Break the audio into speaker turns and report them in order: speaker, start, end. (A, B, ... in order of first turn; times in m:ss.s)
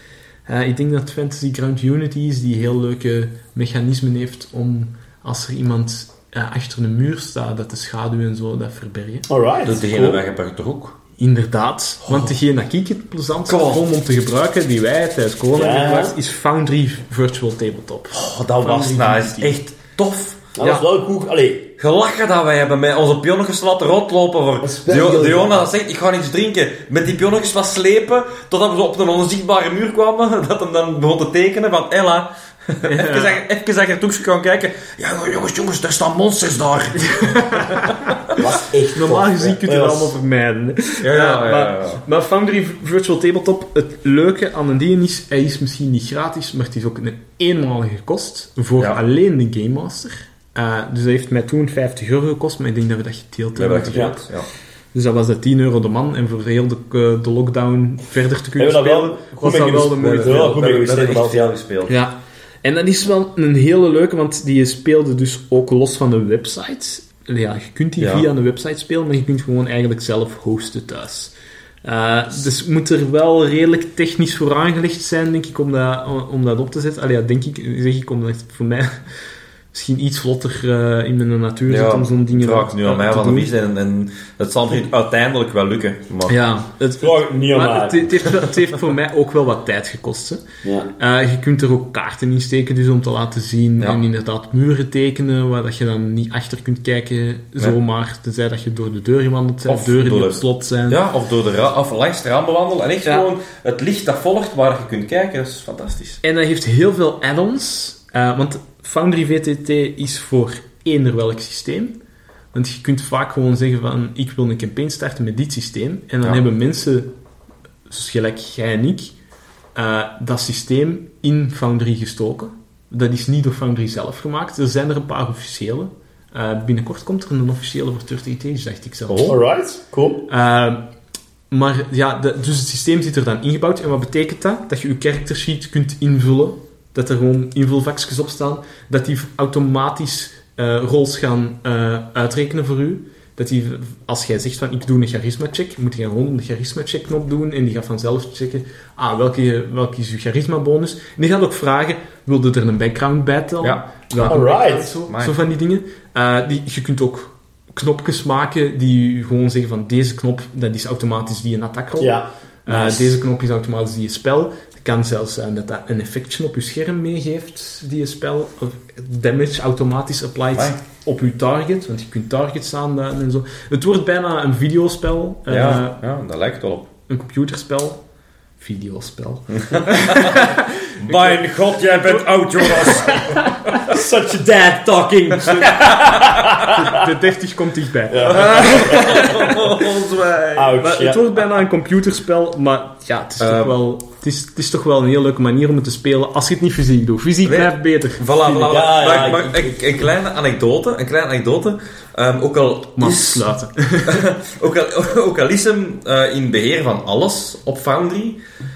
0:00.4-0:09.3 A
0:09.3-0:10.2 B
0:09.6-0:11.0 C
0:11.2-0:19.6 A
0:12.0-0:12.3 C
0:13.5-0:13.8 C
0:15.5-0:16.1 B
0:18.1-0:20.5 C
0:20.5-0:21.7 B
0:20.6-0:20.9 A
0:21.8-0:38.3 C
0:24.6-0:25.7 B
0:32.8-0:33.4 A
0:37.2-0:37.9 A
0:38.3-0:40.2 B
0:38.9-0:54.2 A
0:41.0-0:42.0 C
0:53.5-0:54.5 C
0:54.9-1:00.7 A
0:58.6-1:01.5 B
1:00.0-1:02.0 C
1:01.9-1:11.3 A
1:08.0-1:08.2 C
1:11.8-1:19.0 A
1:19.7-1:23.5 A
1:21.7-1:26.4 C
1:26.3-1:30.4 A
1:27.0-1:28.1 B
1:30.6-1:30.9 B
1:31.0-1:41.0 A
1:39.6-1:46.2 C
1:46.2-1:52.0 A
1:52.5-1:57.1 A
1:57.9-1:59.1 A
1:59.7-2:09.4 A
2:09.1-2:09.4 C
2:09.3-2:10.2 B
2:10.3-2:10.8 A
2:11.5-2:56.0 A
2:33.6-2:34.5 C
2:34.2-2:34.9 B
2:35.0-2:35.4 C
2:42.0-2:43.2 B
2:55.5-2:56.9 C
2:57.1-2:58.0 A
2:58.6-3:03.5 A
2:59.5-3:03.8 C
3:03.8-3:07.0 B
3:05.9-3:06.5 C
3:06.6-3:09.6 A
3:08.1-3:09.5 B
3:08.2-3:10.8 C
3:10.5-3:11.2 B
3:10.8-3:18.8 A
3:13.4-3:13.8 C
3:17.4-3:23.4 C
3:18.6-3:19.8 B
3:23.0-3:24.2 A
3:24.0-3:28.4 C